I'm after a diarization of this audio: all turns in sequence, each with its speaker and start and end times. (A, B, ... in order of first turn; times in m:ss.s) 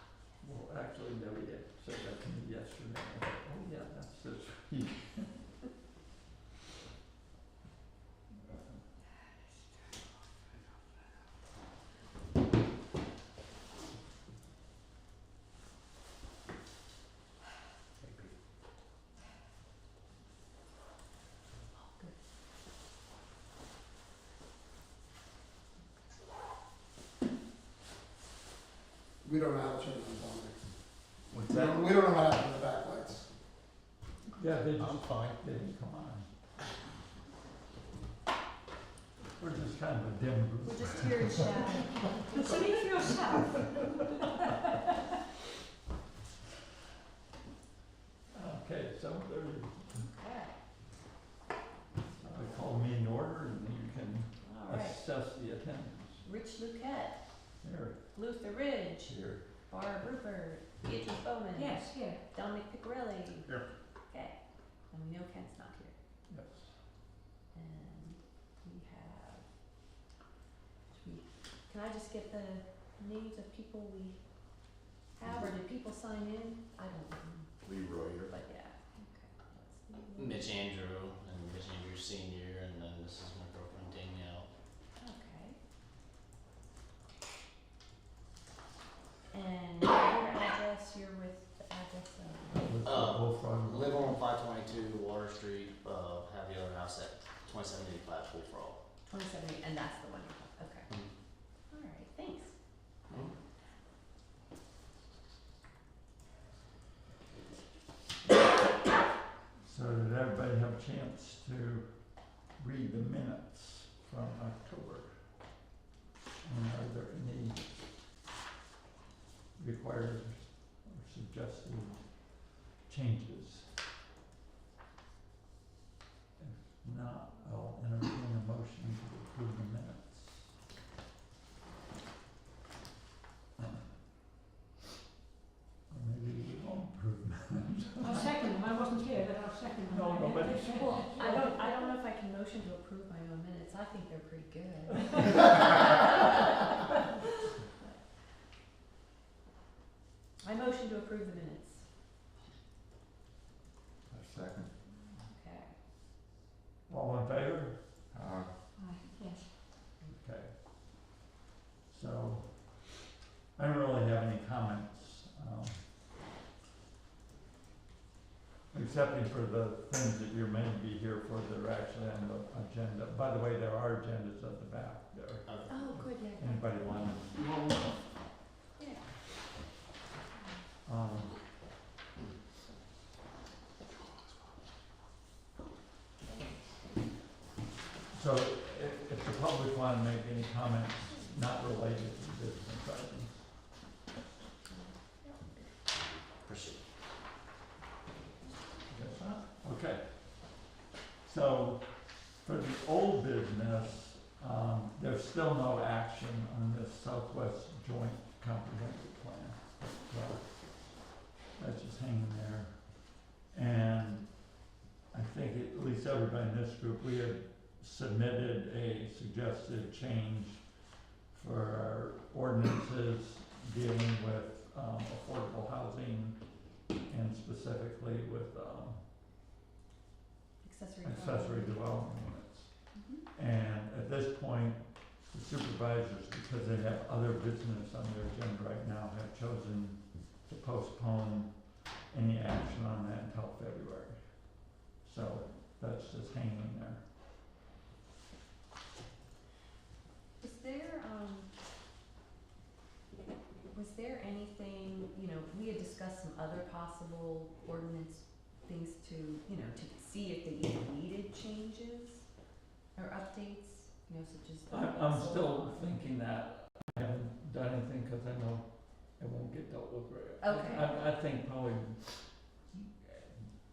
0:00.4-0:05.4 A
0:18.0-0:18.3 B
0:21.7-0:22.1 C
0:29.2-0:30.6 D
0:31.3-0:32.0 B
0:31.5-0:33.2 D
0:34.4-0:36.3 A
0:34.8-0:35.4 B
0:39.4-0:43.6 A
0:40.6-0:42.7 C
0:42.3-0:44.8 E
0:48.3-0:50.1 A
0:50.0-0:50.5 C
0:52.2-0:56.2 A
0:54.4-0:55.0 C
0:56.2-0:57.2 C
0:57.6-0:58.0 A
0:58.1-0:59.2 C
0:59.1-0:59.4 B
0:59.7-1:03.5 C
1:01.5-1:02.2 E
1:04.1-1:04.4 C
1:04.9-1:05.9 C
1:06.3-1:06.7 A
1:07.5-1:09.4 C
1:10.9-1:14.2 C
1:15.2-1:17.6 C
1:17.6-1:18.3 B
1:18.3-1:20.5 C
1:20.1-1:24.5 B
1:25.0-1:25.6 C
1:29.3-1:32.7 C
1:32.5-1:34.1 A
1:32.8-1:38.8 B
1:39.1-1:40.9 C
1:41.7-1:42.5 C
1:49.6-1:51.9 A
1:52.6-1:55.1 A
1:56.4-1:57.7 A
1:59.6-2:02.1 A
2:02.8-2:03.7 A
2:06.4-2:10.5 A
2:15.9-2:18.3 A
2:18.0-2:21.7 E
2:19.9-2:21.2 A
2:20.7-2:26.8 C
2:30.4-2:31.8 C
2:34.1-2:34.7 B
2:35.2-2:35.7 C
2:36.9-2:37.8 A
2:38.1-2:38.5 B
2:38.8-2:39.6 E
2:40.1-2:40.5 A
2:41.9-2:42.7 A
2:43.6-2:45.8 A
2:48.7-2:55.5 A
2:55.5-2:56.0 B
2:55.7-2:56.6 C
2:56.4-2:57.9 A
2:58.8-2:59.0 C
3:00.8-3:01.4 A
3:06.3-3:06.5 C
3:08.1-3:13.4 A
3:14.7-3:15.4 C
3:16.4-3:16.8 B
3:18.9-3:20.6 A
3:21.2-3:30.9 A
3:31.6-3:32.7 A
3:33.5-3:34.4 A
3:35.1-3:40.6 A
3:41.3-3:46.4 A
3:47.0-3:49.0 A
3:50.6-3:51.8 C
3:51.0-4:07.0 A
3:52.9-3:53.2 C
4:10.4-4:11.5 C
4:13.7-4:22.2 C
4:23.0-4:25.9 C
4:24.7-4:33.4 A
4:30.4-4:30.9 C